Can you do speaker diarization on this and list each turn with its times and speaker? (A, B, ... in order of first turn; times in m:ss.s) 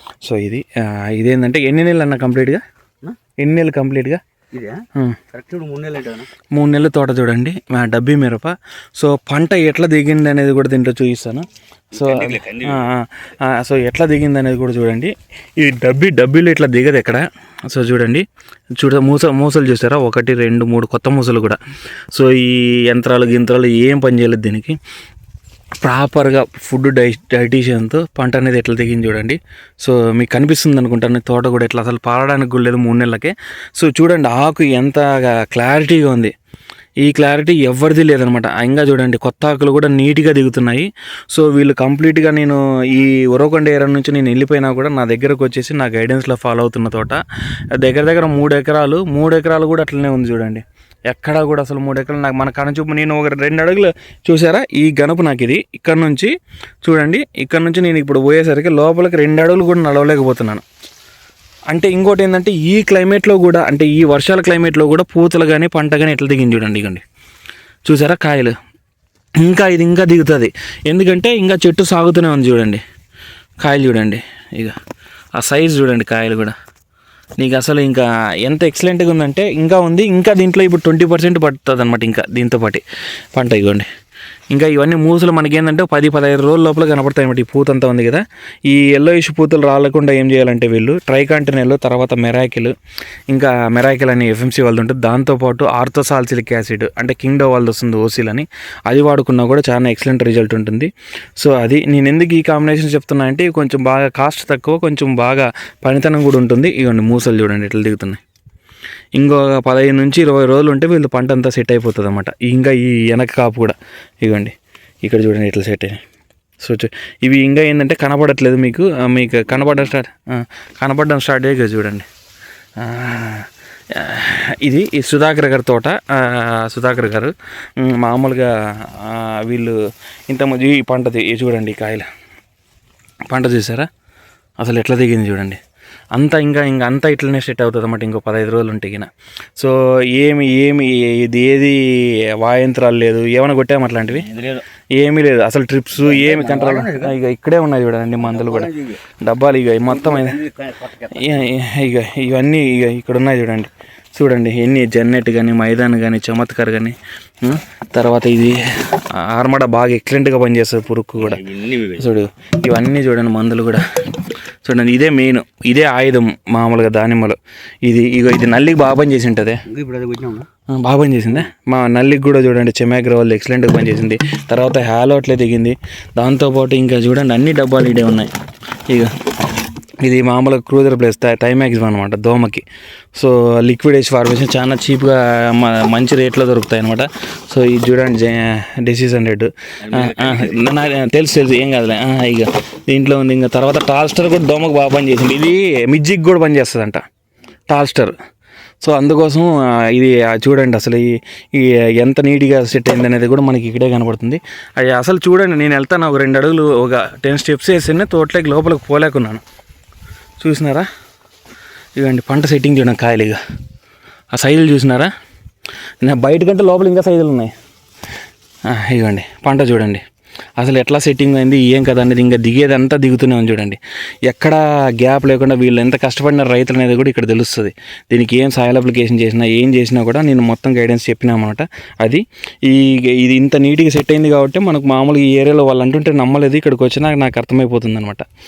0:00.2-0:02.6 A
0:03.4-0:04.2 A
0:04.5-0:06.3 B
0:06.5-0:18.2 A
0:11.9-0:12.9 B
0:18.8-0:21.6 A
0:22.1-0:24.8 A
0:25.8-0:36.3 A
0:37.0-0:47.2 A
0:47.8-0:56.3 A
0:56.8-1:00.6 A
1:01.7-1:07.0 A
1:07.9-1:08.5 A
1:09.4-1:12.8 A
1:13.6-1:14.7 A
1:15.4-1:16.5 A
1:17.4-1:22.8 A
1:23.3-1:23.9 A
1:24.5-1:32.7 A
1:33.3-1:48.2 A
1:49.2-1:56.0 A
1:56.6-2:02.1 A
2:02.8-2:09.8 A
2:10.3-2:12.1 A
2:13.3-2:13.9 A
2:14.6-2:15.6 A
2:16.1-2:24.3 A
2:24.2-2:24.6 B
2:25.0-2:28.7 A
2:26.0-2:27.1 B
2:28.2-2:29.0 B
2:29.2-2:30.4 A
2:29.9-2:31.4 B
2:31.1-2:43.8 A
2:41.2-2:42.1 B
2:44.6-2:49.6 A
2:49.7-2:50.5 B
2:50.7-2:58.3 A
3:00.0-3:02.6 A
3:03.1-3:17.0 A
3:09.8-3:10.6 B
3:17.7-3:18.1 A
3:18.8-3:29.4 A
3:30.4-3:30.9 A
3:32.0-3:33.4 A
3:34.3-3:35.1 A
3:36.0-3:37.5 A
3:38.7-3:40.0 A
3:40.6-3:58.2 A